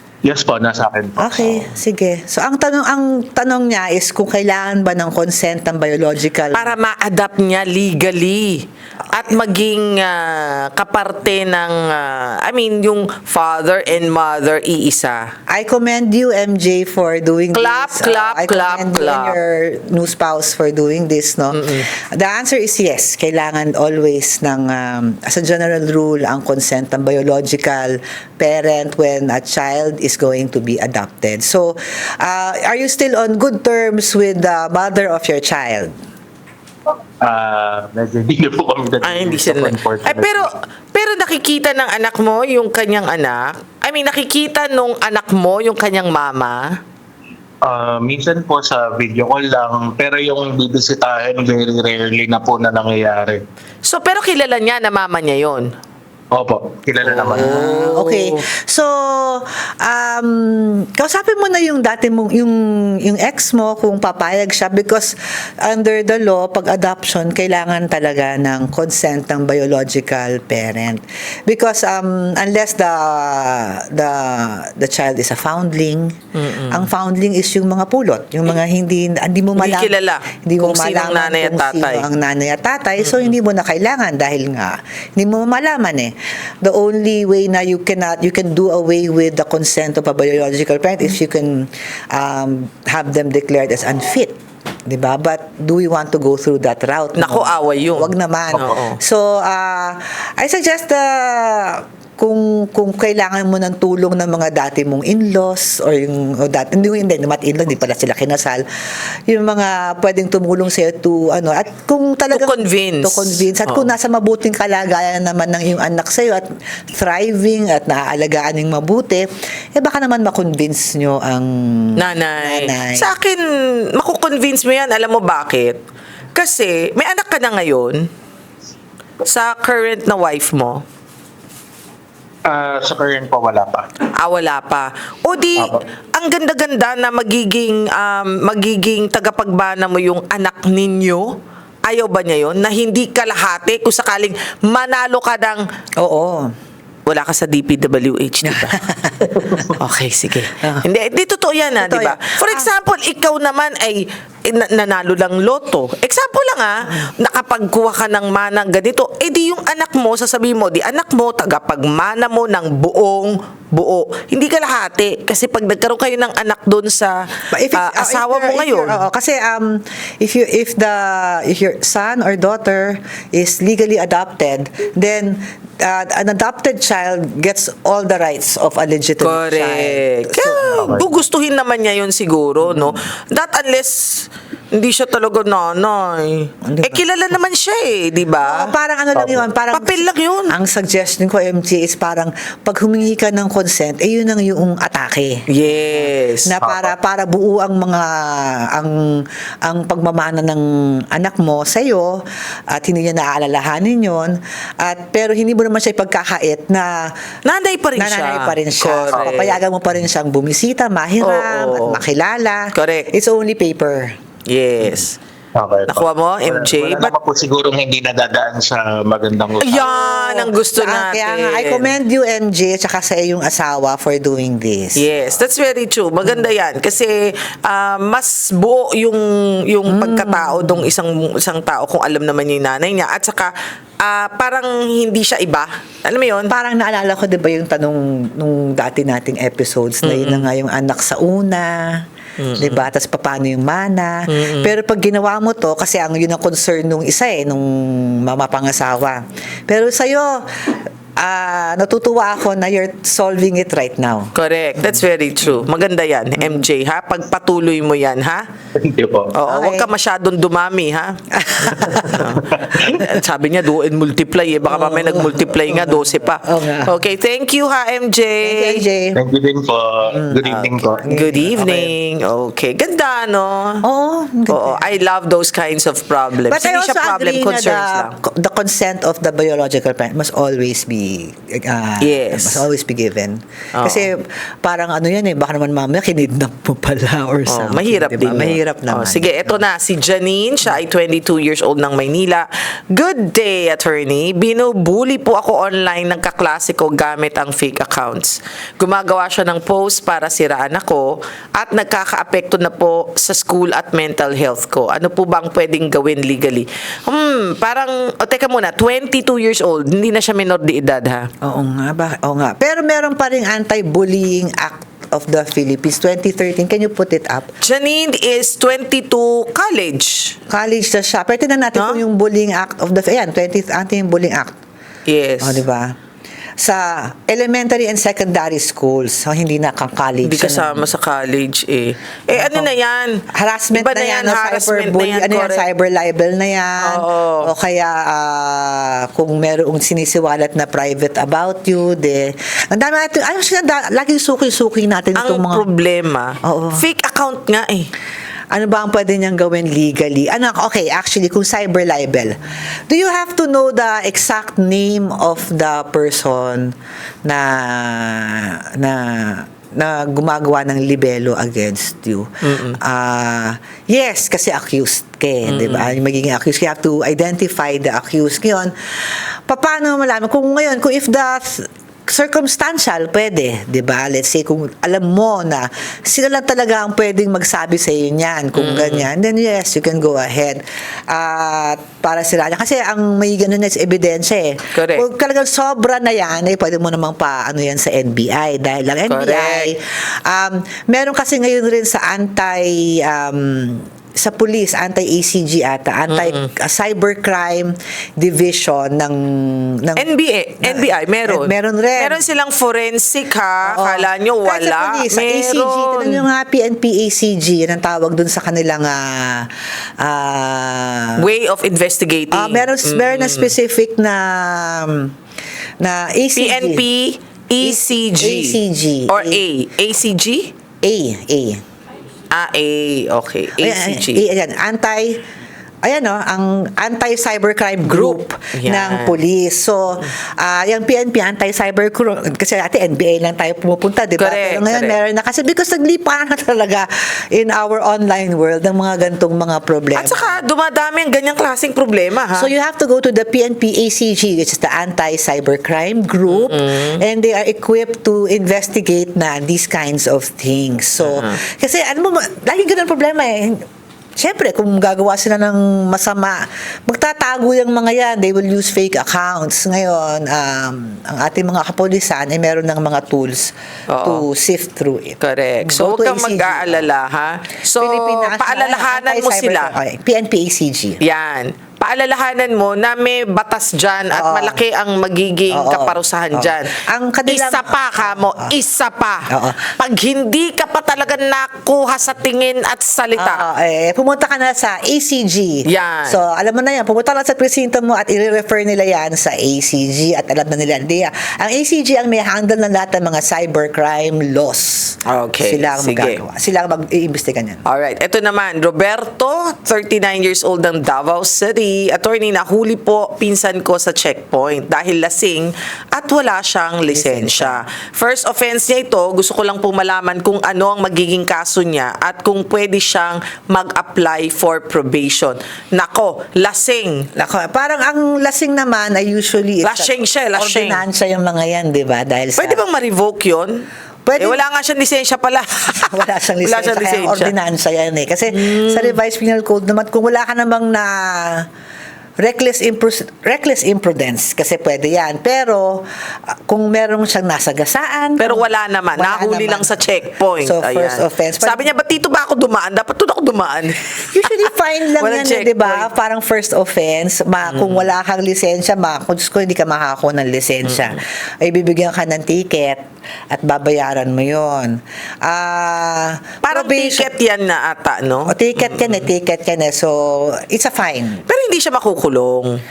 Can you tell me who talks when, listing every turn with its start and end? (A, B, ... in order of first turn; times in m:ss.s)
0:00.2-0:01.7 A
0:01.2-0:06.8 B
0:06.5-0:15.3 C
0:15.5-0:35.9 B
0:17.5-0:19.4 C
0:21.5-0:21.9 C
0:37.2-0:40.5 A
0:39.0-0:46.8 C
0:47.6-0:53.4 A
0:53.8-0:55.7 C
0:56.3-0:57.8 A
0:57.1-0:58.4 C
0:57.4-1:16.2 B
1:16.4-1:16.9 C
1:16.7-2:03.1 B
1:19.6-1:22.1 C
1:37.2-1:39.0 C
1:52.3-1:53.9 C
2:02.0-2:05.8 C
2:06.4-2:08.1 C
2:09.2-2:10.8 C
2:12.4-2:13.9 A
2:14.2-2:25.6 C
2:26.0-2:26.5 B
2:27.1-2:28.8 C
2:28.4-2:29.8 B
2:29.7-2:49.0 C
2:31.8-2:32.7 B
2:47.5-3:00.9 B
2:59.2-3:08.7 C
3:00.7-3:01.0 A
3:06.6-3:07.0 B
3:08.4-3:15.4 B
3:09.2-3:09.5 A
3:09.7-3:10.6 C
3:15.5-3:16.6 C
3:16.4-3:27.1 B
3:16.6-3:16.9 A
3:27.4-3:29.6 C
3:28.0-3:34.2 B
3:29.1-3:29.5 A
3:31.2-3:32.0 C
3:32.7-3:33.1 C
3:34.5-3:35.2 C
3:35.6-3:39.9 A
3:35.9-3:37.1 C
3:39.6-3:41.9 C
3:39.8-3:45.1 B
3:45.0-3:56.5 C
3:49.9-3:50.9 B
3:56.5-4:02.1 B
4:00.0-4:00.5 C
4:02.4-4:02.9 C
4:02.6-4:14.3 B
4:04.3-4:04.7 C
4:14.4-4:18.4 C
4:18.8-4:19.3 A
4:19.3-4:28.8 C
4:19.4-4:19.9 B
4:21.3-4:22.4 B
4:22.1-4:22.9 A
4:24.7-4:27.0 B
4:28.4-4:29.2 B
4:29.1-4:31.1 A
4:30.1-4:31.9 B
4:30.5-4:33.8 C
4:33.8-4:34.9 B
4:34.5-4:38.1 C
4:36.5-4:49.5 B
4:42.0-4:42.6 C
4:43.8-4:44.1 C
4:47.5-5:11.3 C
5:11.4-5:17.5 B
5:17.6-5:20.4 C
5:20.5-5:24.5 B
5:21.8-5:22.0 C
5:25.1-5:25.6 C
5:25.4-5:26.0 B
5:26.6-5:30.9 B
5:30.2-5:35.6 C
5:32.3-5:32.7 B
5:33.3-5:45.6 B
5:36.8-5:37.5 C
5:45.2-5:47.9 C
5:46.4-5:46.8 B
5:48.5-6:40.1 B
6:02.4-6:02.8 C
6:05.5-6:06.0 C
6:18.5-6:19.1 C
6:24.7-6:25.1 C
6:29.0-6:29.7 C
6:36.1-6:36.5 C
6:40.0-6:46.2 C
6:40.6-6:42.2 B
6:43.6-6:51.2 B
6:51.2-6:53.5 C
6:52.3-6:55.1 B
6:55.8-6:56.9 B
6:56.4-7:00.5 C
6:57.6-6:59.4 B
7:00.8-7:01.6 B
7:02.3-7:04.2 C
7:03.6-7:05.2 B
7:05.8-7:20.4 B
7:07.8-7:09.2 C
7:14.2-7:15.0 C
7:20.0-7:22.5 C
7:22.3-7:33.6 B
7:26.3-7:27.0 C
7:31.0-7:31.4 C
7:34.2-7:46.9 B
7:43.9-7:44.2 C
7:45.2-7:49.8 C
7:47.8-7:51.0 B
7:51.0-7:56.8 C
7:54.1-7:54.6 B
7:55.5-7:58.5 B
7:57.3-8:03.4 C
7:59.3-7:59.7 B
8:03.2-8:17.6 B
8:05.6-8:06.2 C
8:15.0-8:16.2 C
8:17.6-8:37.1 C
8:26.9-8:27.6 B
8:37.2-8:42.6 B
8:39.6-8:40.8 C
8:42.4-8:43.6 C
8:44.0-8:44.4 B
8:44.2-8:47.3 C
8:45.8-8:51.5 B
8:48.3-8:49.0 C
8:52.2-8:58.4 B
8:58.2-9:05.9 C
8:59.0-8:59.7 B
9:00.4-9:01.7 B
9:04.1-9:17.1 B
9:07.5-9:07.8 C
9:16.4-9:19.0 C
9:18.3-9:21.2 B
9:21.3-9:22.6 C